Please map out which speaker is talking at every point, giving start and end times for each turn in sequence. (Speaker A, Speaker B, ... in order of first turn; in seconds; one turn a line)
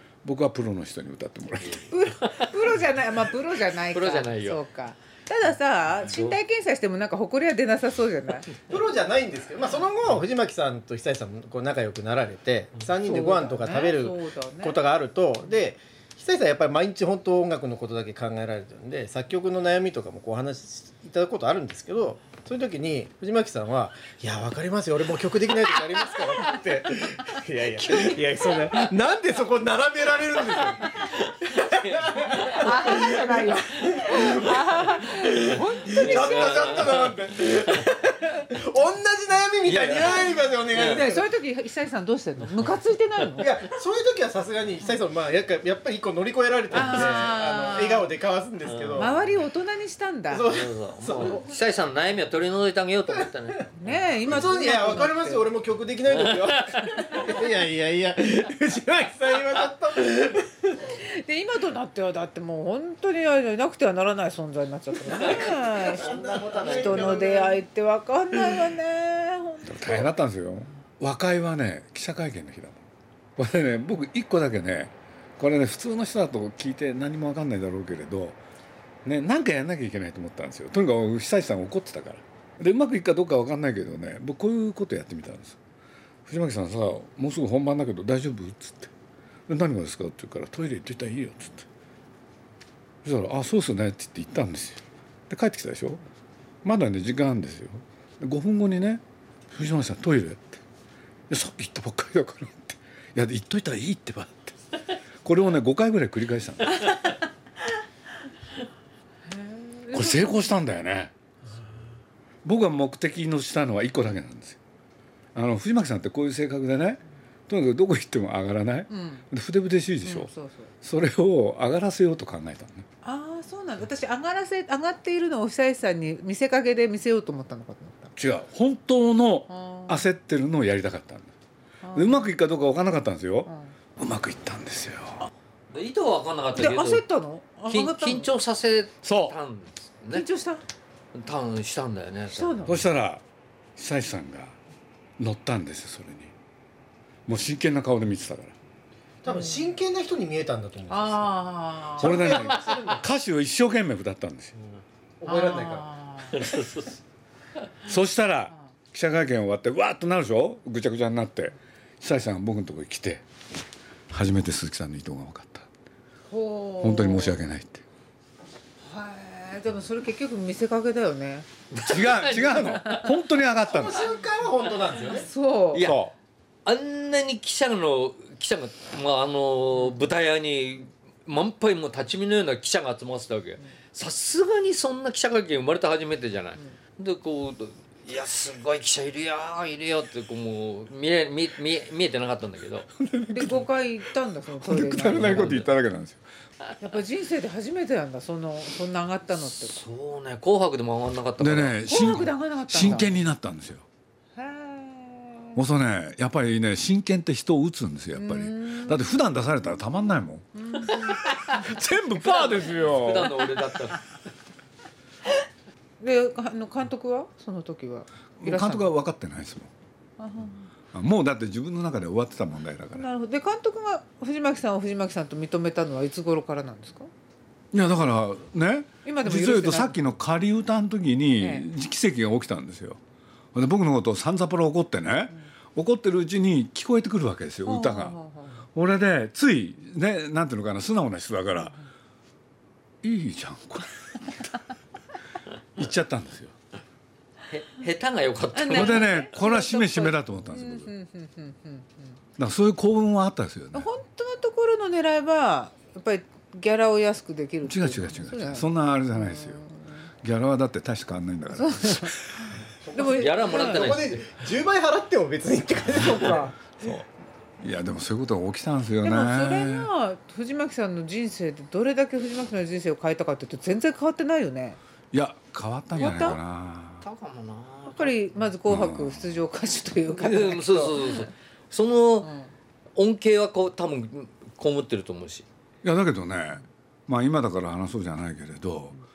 Speaker A: 0.2-1.9
Speaker B: 1.9-8.5
Speaker C: 3.8-4.6
Speaker C: 6.0-6.3
Speaker D: 8.7-41.3
Speaker B: 13.0-14.8
Speaker C: 28.0-28.8
Speaker C: 30.6-33.2
Speaker B: 32.4-36.8
Speaker C: 35.9-37.8
Speaker C: 39.6-41.1
Speaker B: 40.7-43.5
Speaker D: 43.4-49.2
Speaker B: 46.7-48.1
Speaker C: 46.8-47.1
Speaker C: 48.6-49.0
Speaker B: 48.9-50.5
Speaker D: 50.3-51.4
Speaker C: 50.5-53.7
Speaker B: 53.8-55.5
Speaker D: 54.2-60.9
Speaker C: 56.1-57.1
Speaker B: 61.0-70.1
Speaker D: 65.1-67.6
Speaker C: 65.1-67.0
Speaker A: 69.6-72.8
Speaker A: 73.4-78.4
Speaker A: 79.0-85.6
Speaker A: 86.2-88.9
Speaker A: 89.5-91.7
Speaker A: 93.0-96.0
Speaker A: 96.6-100.6
Speaker A: 101.3-104.5
Speaker A: 105.2-106.8
Speaker B: 109.3-110.5
Speaker A: 109.9-111.1
Speaker A: 112.4-114.6
Speaker A: 115.3-120.3
Speaker B: 118.9-119.2
Speaker B: 120.0-120.7
Speaker A: 120.8-122.8
Speaker B: 123.0-128.1
Speaker A: 128.2-131.3
Speaker B: 129.5-130.0
Speaker B: 131.8-132.3
Speaker A: 131.9-135.3
Speaker B: 133.4-133.7
Speaker C: 135.7-137.0
Speaker B: 136.5-138.3
Speaker C: 137.7-140.2
Speaker A: 139.0-139.3
Speaker B: 140.1-140.6
Speaker C: 141.1-142.6
Speaker B: 142.3-142.8
Speaker A: 142.7-143.2
Speaker A: 143.8-144.5
Speaker A: 145.2-146.3
Speaker A: 147.2-148.5
Speaker D: 149.2-151.4
Speaker B: 149.2-149.7
Speaker B: 150.9-153.0
Speaker D: 152.0-153.0
Speaker A: 152.0-154.6
Speaker D: 155.2-155.9
Speaker B: 155.2-156.4
Speaker C: 156.3-157.0
Speaker A: 157.8-163.2
Speaker A: 164.1-165.7
Speaker B: 166.3-167.4
Speaker A: 166.8-167.8
Speaker B: 168.8-171.5
Speaker C: 171.7-173.1
Speaker A: 171.8-174.0
Speaker D: 173.6-175.3
Speaker B: 175.1-175.9
Speaker C: 175.7-176.0
Speaker A: 175.7-176.1
Speaker C: 176.6-192.9
Speaker A: 193.0-193.7
Speaker B: 193.3-195.6
Speaker A: 194.5-196.2
Speaker C: 195.1-195.7
Speaker B: 196.8-199.8
Speaker C: 199.4-202.2
Speaker A: 201.4-203.8
Speaker B: 201.8-203.1
Speaker B: 204.3-205.6
Speaker A: 205.6-213.4
Speaker B: 208.1-209.3
Speaker B: 210.6-212.6
Speaker C: 212.3-214.1
Speaker B: 216.0-218.9
Speaker A: 218.4-219.7
Speaker B: 220.2-220.7
Speaker A: 220.9-223.1
Speaker B: 222.9-227.1
Speaker A: 227.7-233.0
Speaker B: 229.0-230.1
Speaker B: 231.4-231.7
Speaker A: 233.5-238.2
Speaker B: 237.7-238.6
Speaker A: 238.7-241.7
Speaker A: 243.0-244.4
Speaker A: 245.8-246.5
Speaker C: 247.5-249.2
Speaker B: 248.5-251.9
Speaker A: 248.7-250.9
Speaker A: 252.4-253.9
Speaker B: 253.7-260.1
Speaker A: 257.6-259.6
Speaker A: 260.2-262.5
Speaker B: 261.5-262.4
Speaker D: 262.8-266.5
Speaker B: 262.9-264.0
Speaker C: 263.1-264.3
Speaker B: 265.9-266.6
Speaker A: 266.8-267.1
Speaker A: 267.6-269.9
Speaker B: 269.0-274.8
Speaker A: 275.1-277.0
Speaker B: 275.9-276.4
Speaker C: 277.0-278.1
Speaker B: 277.9-281.3
Speaker A: 278.7-279.4
Speaker C: 280.2-282.3
Speaker B: 282.2-282.5
Speaker C: 282.9-285.4
Speaker A: 285.8-288.9